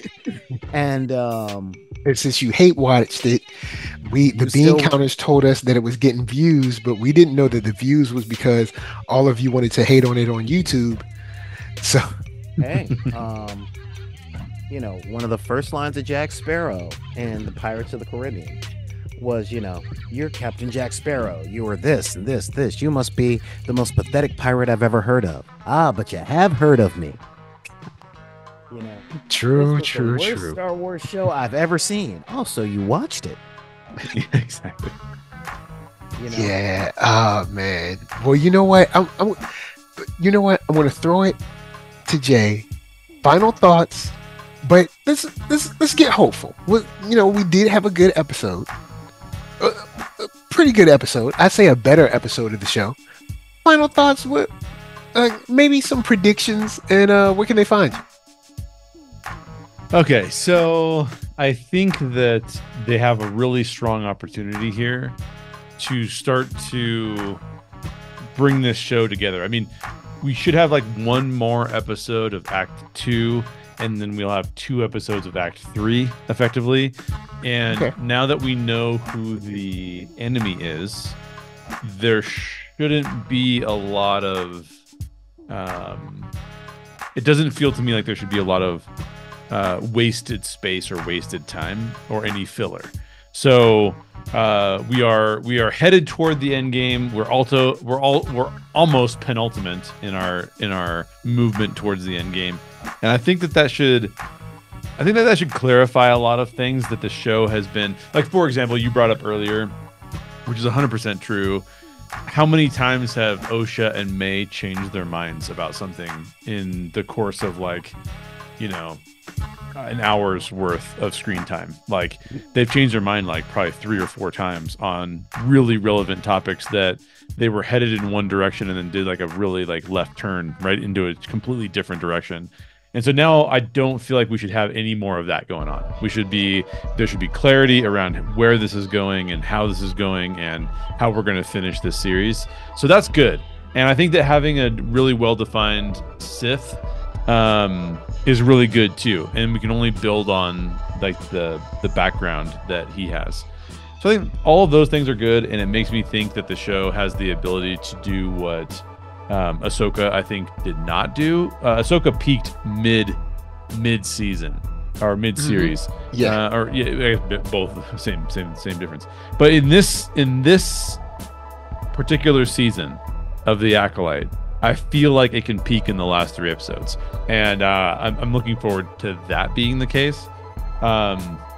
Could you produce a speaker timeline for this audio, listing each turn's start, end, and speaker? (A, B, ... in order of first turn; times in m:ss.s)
0:00.7-0:01.8 A
0:02.0-0:03.5 B
0:04.0-0:11.1 B
0:04.3-0:04.9 A
0:11.8-0:12.1 B
0:12.6-0:13.7 A
0:14.7-0:18.6 A
0:19.2-0:27.2 A
0:28.7-0:33.4 A
0:29.3-0:30.6 B
0:34.0-0:34.9 C
0:36.2-0:36.5 A
0:36.3-0:39.4 B
0:40.0-0:41.4 B
0:42.1-0:42.7 B
0:43.2-0:48.7 B
0:49.6-0:53.0 B
0:53.6-0:54.5 B
0:55.1-0:58.0 B
0:59.9-1:05.2 C
1:05.8-1:07.4 C
1:08.3-1:21.2 C
1:17.7-1:17.9 B
1:21.8-1:24.7 C
1:25.5-1:26.3 C
1:27.2-1:28.9 C
1:29.5-1:44.2 C
1:45.0-1:49.7 C
1:50.5-1:51.7 C
1:52.3-1:58.0 C
1:58.6-1:59.0 C
1:59.8-2:33.5 C
2:34.0-2:43.2 C
2:43.7-2:51.0 C
2:45.4-2:46.4 B
2:51.9-3:00.3 C
3:00.8-3:01.4 C